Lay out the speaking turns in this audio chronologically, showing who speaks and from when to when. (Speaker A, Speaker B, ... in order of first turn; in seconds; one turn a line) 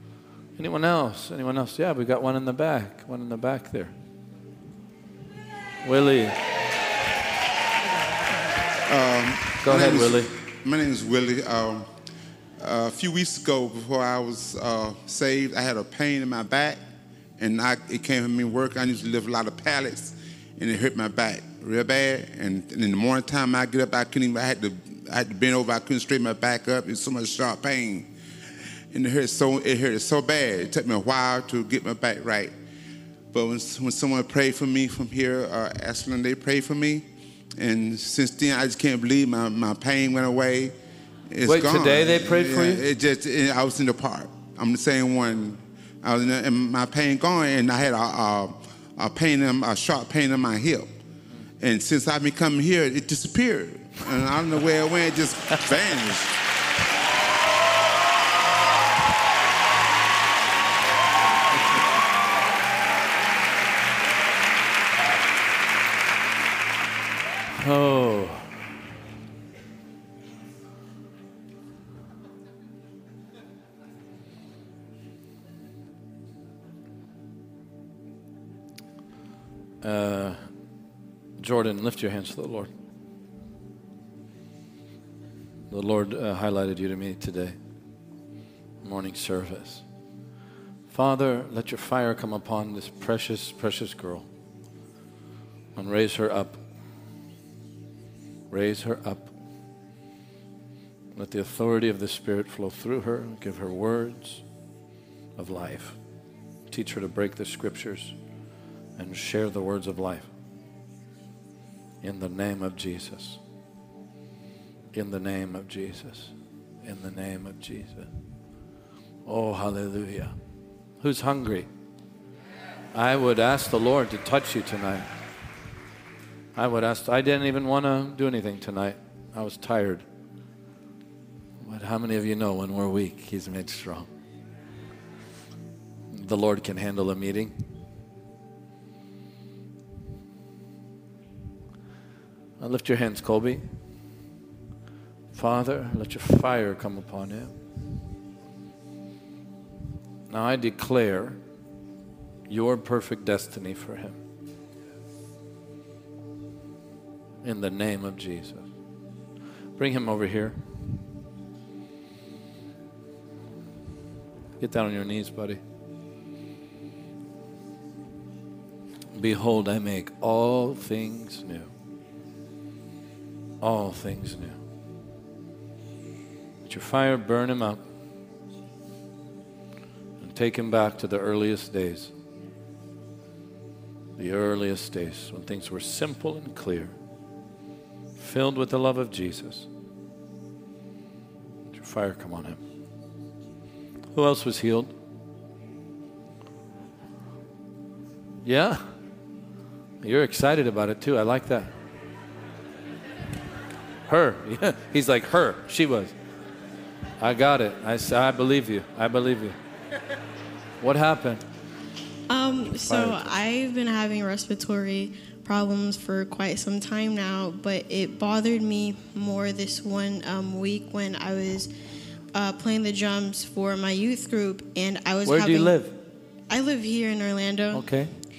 Speaker A: 0.6-3.9
Speaker A: 5.8-6.4
Speaker B: 8.9-11.9
Speaker A: 9.6-10.3
Speaker B: 12.6-16.8
Speaker B: 17.4-28.1
Speaker B: 28.9-32.5
Speaker B: 33.3-37.0
Speaker B: 37.6-40.7
Speaker B: 41.3-50.9
Speaker A: 41.5-42.8
Speaker B: 51.6-56.3
Speaker A: 67.6-68.5
Speaker A: 79.8-80.4
Speaker A: 81.4-82.7
Speaker A: 85.7-87.6
Speaker A: 88.8-89.8
Speaker A: 90.9-94.3
Speaker A: 95.8-96.6
Speaker A: 98.5-99.3
Speaker A: 101.1-104.4
Speaker A: 105.4-106.0
Speaker A: 106.7-108.1
Speaker A: 109.0-110.3
Speaker A: 112.0-113.4
Speaker A: 114.9-118.1
Speaker A: 119.3-120.3
Speaker A: 121.0-121.7
Speaker A: 122.9-125.1
Speaker A: 126.5-130.1
Speaker A: 131.6-134.1
Speaker A: 136.1-137.5
Speaker A: 142.6-143.6
Speaker A: 145.3-147.5
Speaker A: 150.3-151.4
Speaker A: 152.5-154.2
Speaker A: 157.4-158.7
Speaker A: 159.8-160.6
Speaker A: 164.6-165.6
Speaker A: 169.1-171.7
Speaker A: 173.6-174.6
Speaker A: 176.7-177.8
Speaker A: 180.2-182.1
Speaker A: 184.2-186.9
Speaker A: 188.2-189.7
Speaker A: 191.7-192.6
Speaker A: 194.1-194.9
Speaker A: 198.4-198.8
Speaker A: 200.0-201.7
Speaker A: 204.1-206.1
Speaker A: 207.2-209.6
Speaker A: 210.8-211.4
Speaker C: 212.3-221.7
Speaker A: 212.8-213.3
Speaker C: 222.3-225.8
Speaker A: 225.2-225.9
Speaker C: 226.5-227.9
Speaker A: 227.7-228.1